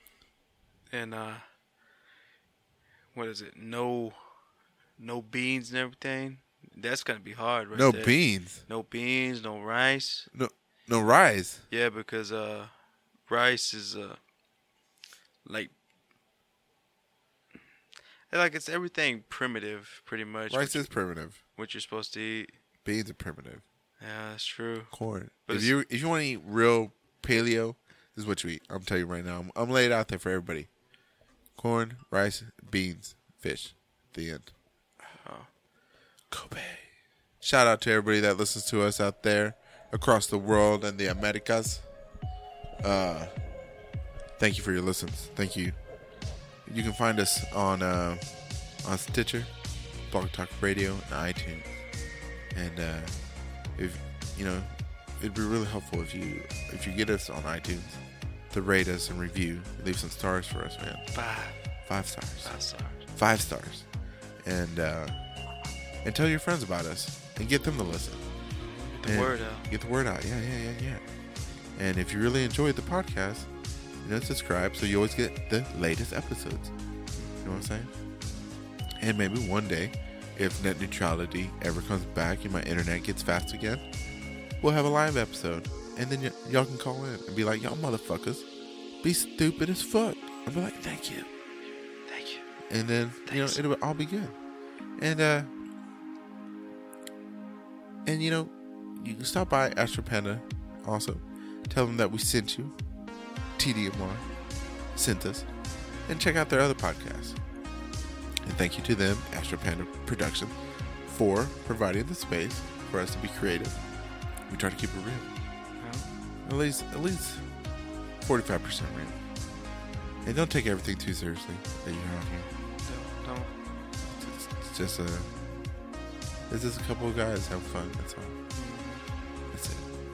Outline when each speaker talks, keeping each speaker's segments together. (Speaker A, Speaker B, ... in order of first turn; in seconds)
Speaker A: 0.9-1.4, 3.1-4.2, 5.0-8.2, 8.7-10.3, 11.7-12.7, 13.3-14.2, 15.4-15.7, 18.3-20.9, 21.6-22.5, 24.0-24.9, 25.5-25.7, 35.2-35.5, 61.1-61.6, 62.4-63.0, 68.6-69.7, 77.2-77.7, 92.1-92.5, 93.3-93.6, 115.8-116.1, 122.8-123.5, 128.5-129.0
Speaker B: 7.7-8.6, 10.3-11.6, 20.5-21.4, 22.9-23.6, 24.9-30.7, 31.6-34.5, 36.3-36.8, 37.4-41.8, 42.8-43.4, 44.4-45.8, 46.7-49.5, 50.1-51.8, 52.5-53.2, 53.8-61.1, 61.9-62.5, 63.1-63.9, 64.4-65.2, 66.0-68.2, 69.0-71.0, 71.8-73.5, 74.0-76.7, 77.4-77.9, 79.0-83.8, 84.6-88.5, 89.0-91.3, 92.7-94.3, 95.0-95.5, 98.0-102.7, 103.6-104.2, 105.0-105.5, 106.1-107.4, 108.5-110.5, 111.1-113.8, 114.5-115.3, 116.5-117.4, 118.2-119.2, 120.2-122.5, 124.0-125.3, 126.5-128.4, 129.5-129.9